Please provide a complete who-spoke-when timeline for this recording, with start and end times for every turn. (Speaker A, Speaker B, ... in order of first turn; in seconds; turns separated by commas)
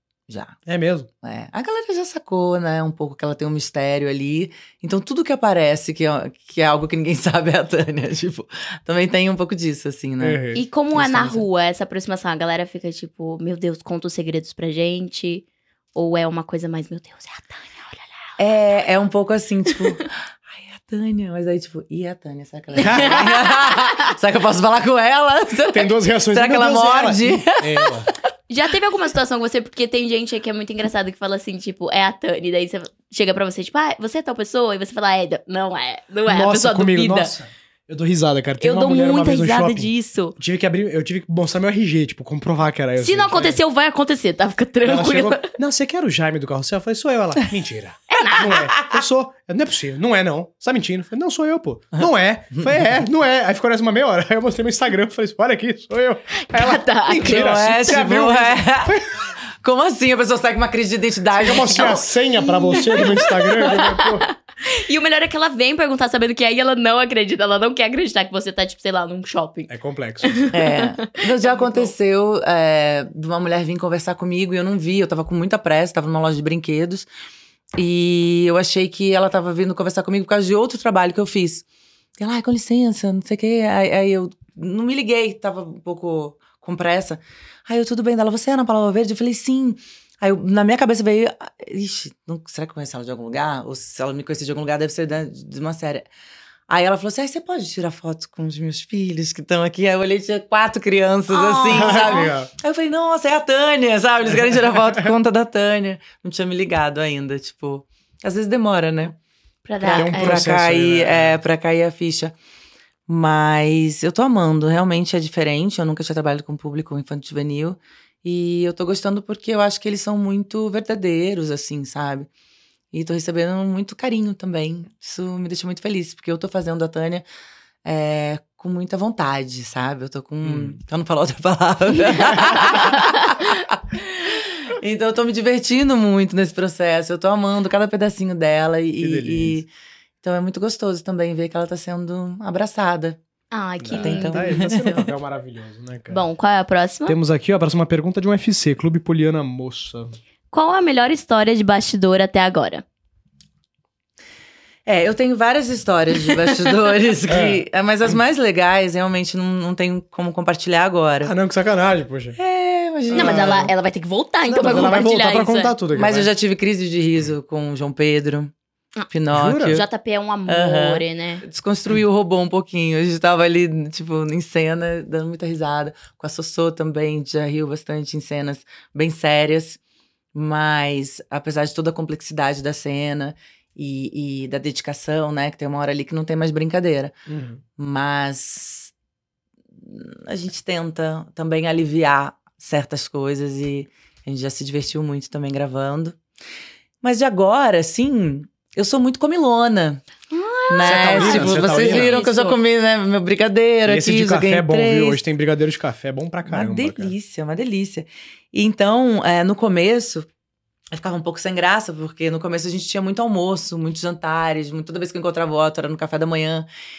Speaker A: 0.3-0.6, Speaker B: 0.7-1.1, Speaker A: 1.2-10.4, Speaker B: 10.2-10.6, Speaker C: 10.5-18.1, Speaker A: 10.9-11.4, Speaker A: 18.4-28.1, Speaker C: 22.8-23.9, Speaker B: 22.8-23.3, Speaker B: 25.7-28.1, Speaker C: 28.5-37.3, Speaker B: 36.3-43.6, Speaker C: 38.6-40.4, Speaker C: 43.0-45.5, Speaker B: 44.8-59.1, Speaker C: 48.1-48.8, Speaker C: 56.5-57.8, Speaker A: 57.1-59.0, Speaker A: 59.6-62.1, Speaker B: 61.4-64.3, Speaker C: 62.5-69.7, Speaker B: 69.7-70.5, Speaker C: 70.2-71.9, Speaker A: 70.5-77.1, Speaker A: 77.8-81.7, Speaker A: 82.2-96.1, Speaker A: 96.7-109.2, Speaker C: 101.3-102.3, Speaker B: 101.7-102.5, Speaker C: 109.7-110.4, Speaker A: 109.8-112.3, Speaker B: 109.9-111.4, Speaker A: 113.1-122.3, Speaker A: 122.9-127.2, Speaker A: 127.8-133.8, Speaker B: 130.4-130.8, Speaker A: 134.7-139.7, Speaker B: 139.0-139.6, Speaker A: 140.2-143.2, Speaker C: 143.5-145.1, Speaker B: 143.8-146.2, Speaker A: 144.0-144.9, Speaker C: 146.1-147.2, Speaker B: 147.1-150.1, Speaker C: 150.5-152.8, Speaker A: 154.9-161.3, Speaker B: 157.3-157.6, Speaker B: 161.2-162.4, Speaker A: 162.4-163.7, Speaker B: 163.1-163.7, Speaker C: 163.1-165.7, Speaker B: 164.5-166.3, Speaker A: 165.9-168.5, Speaker A: 169.1-169.8, Speaker B: 169.3-169.8, Speaker C: 169.7-171.4, Speaker A: 170.5-179.8, Speaker A: 180.3-187.2, Speaker B: 187.3-187.6, Speaker A: 187.8-188.9, Speaker A: 189.8-196.2, Speaker A: 197.0-200.0, Speaker C: 200.3-202.6, Speaker A: 200.7-205.2, Speaker B: 200.8-202.2, Speaker B: 203.9-207.1, Speaker A: 206.5-210.3, Speaker A: 210.9-216.7